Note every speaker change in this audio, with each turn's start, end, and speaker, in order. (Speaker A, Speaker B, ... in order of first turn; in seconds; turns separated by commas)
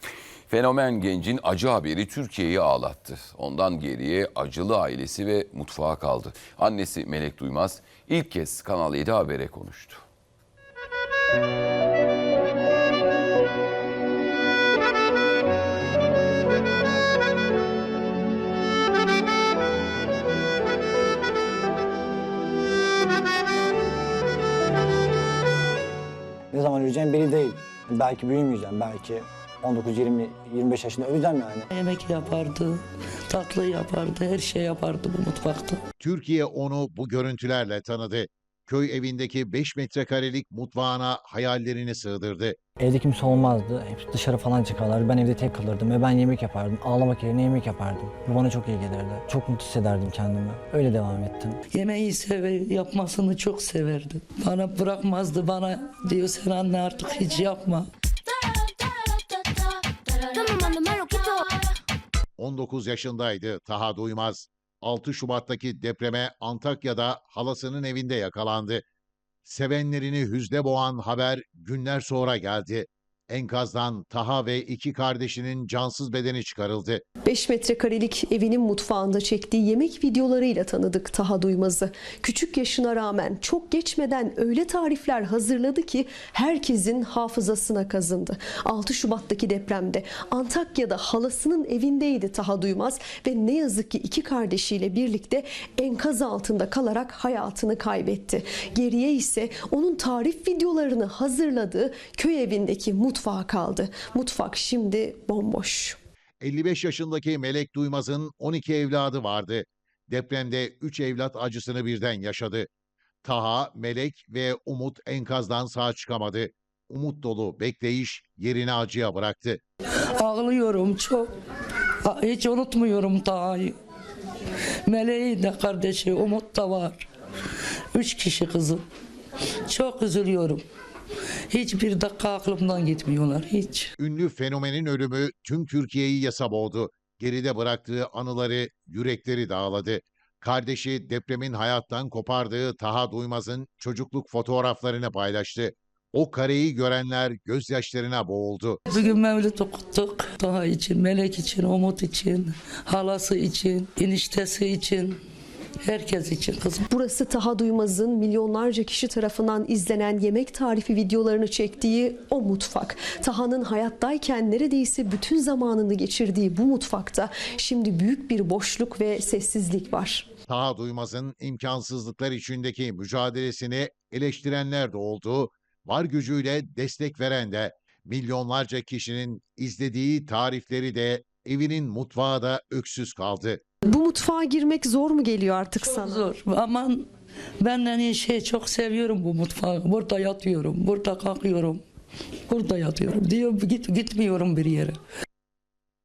Speaker A: 0.5-10.0, Speaker B: 26.5-31.7, Speaker C: 31.7-35.8, Speaker D: 36.0-42.6, Speaker B: 42.8-51.6, Speaker C: 51.7-57.9, Speaker E: 58.3-61.6, Speaker D: 62.4-68.8, Speaker D: 69.4-77.0, Speaker F: 77.2-106.0, Speaker D: 106.4-112.7, Speaker D: 113.2-119.6, Speaker C: 120.2-121.3, Speaker C: 122.0-123.8, Speaker C: 124.9-127.1, Speaker C: 127.9-128.8, Speaker C: 129.7-130.6, Speaker C: 131.5-133.9, Speaker D: 134.0-148.8, Speaker C: 148.9-155.2, Speaker C: 155.8-156.9, Speaker F: 156.9-170.3, Speaker D: 170.5-183.6, Speaker F: 183.8-186.2, Speaker C: 185.8-187.1, Speaker C: 187.6-191.8, Speaker C: 192.5-195.0